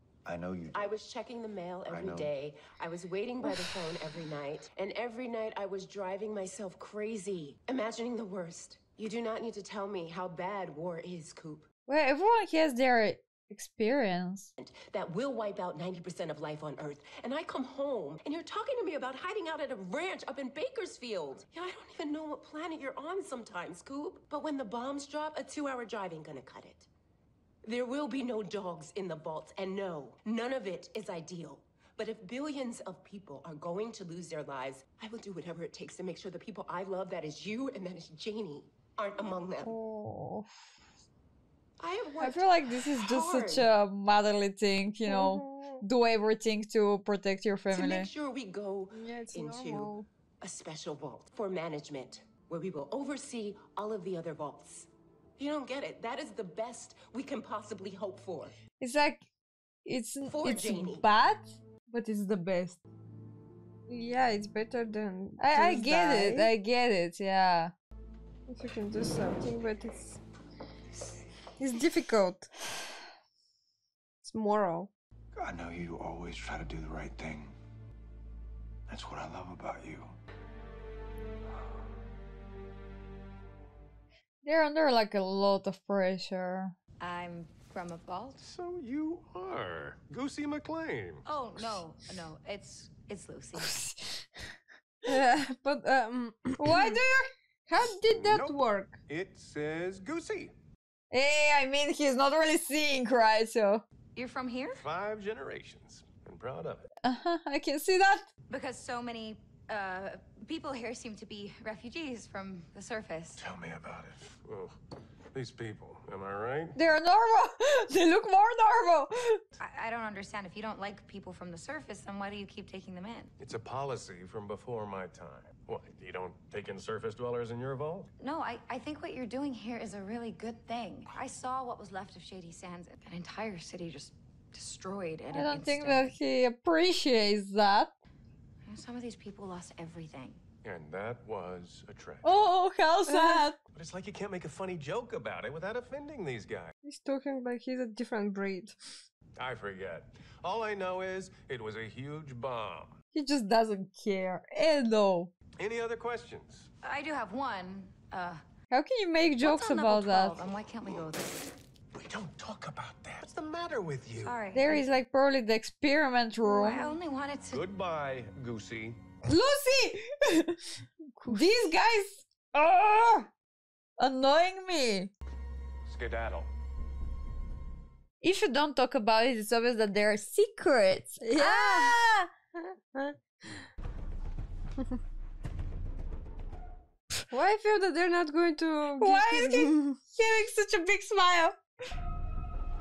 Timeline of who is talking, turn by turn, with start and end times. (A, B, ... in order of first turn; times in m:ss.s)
0:00.2-0:00.9 A
0:00.7-0:11.7 B
0:01.9-0:02.3 A
0:11.9-0:14.5 C
0:14.6-0:26.9 B
0:27.6-0:39.7 B
0:39.6-0:40.5 C
0:41.8-0:43.7 B
0:42.2-0:48.1 C
0:45.1-0:45.8 D
0:47.7-0:58.5 B
0:48.9-0:50.1 D
0:58.8-0:59.3 C
0:59.8-1:02.8 C
1:00.3-1:01.0 B
1:03.9-1:06.5 D
1:05.4-1:07.7 C
1:08.5-1:10.2 D
1:11.6-1:12.5 D
1:14.2-1:14.9 D
1:15.3-1:17.6 A
1:18.9-1:20.2 A
1:24.4-1:26.7 C
1:27.0-1:28.4 E
1:28.4-1:31.2 F
1:31.2-1:33.8 E
1:33.6-1:34.3 C
1:35.0-1:37.0 D
1:36.6-1:37.3 C
1:37.7-1:39.0 D
1:38.1-1:38.5 F
1:39.1-1:40.5 F
1:41.1-1:43.8 C
1:44.2-1:44.8 E
1:44.7-1:46.8 F
1:47.0-1:48.3 C
1:48.5-1:53.4 E
1:53.4-1:54.8 F
1:55.3-1:56.7 F
1:56.7-1:59.4 C
1:59.6-2:03.3 E
2:03.4-2:08.1 F
2:08.2-2:16.1 E
2:15.3-2:17.9 C
2:18.6-2:20.4 E
2:20.6-2:22.3 F
2:22.2-2:23.6 C
2:23.1-2:23.5 D
2:23.7-2:26.7 F
2:26.8-2:28.7 D
2:29.4-2:33.0 F
2:33.1-2:35.3 C
2:35.6-2:36.7 F
2:36.8-2:38.4 E
2:38.7-2:40.4 C
2:39.4-2:41.5 E
2:43.1-2:44.4 F
2:44.2-2:44.8 E
2:44.5-2:46.9 C
2:46.4-2:47.6 E
2:47.5-2:49.0 F
2:49.2-2:53.3 C
2:54.0-2:55.1 C
2:55.9-2:56.5 F
2:58.2-3:02.3 C
3:01.2-3:02.0 D
3:02.6-3:03.6 D
3:07.3-3:10.0 D
3:09.0-3:11.6 C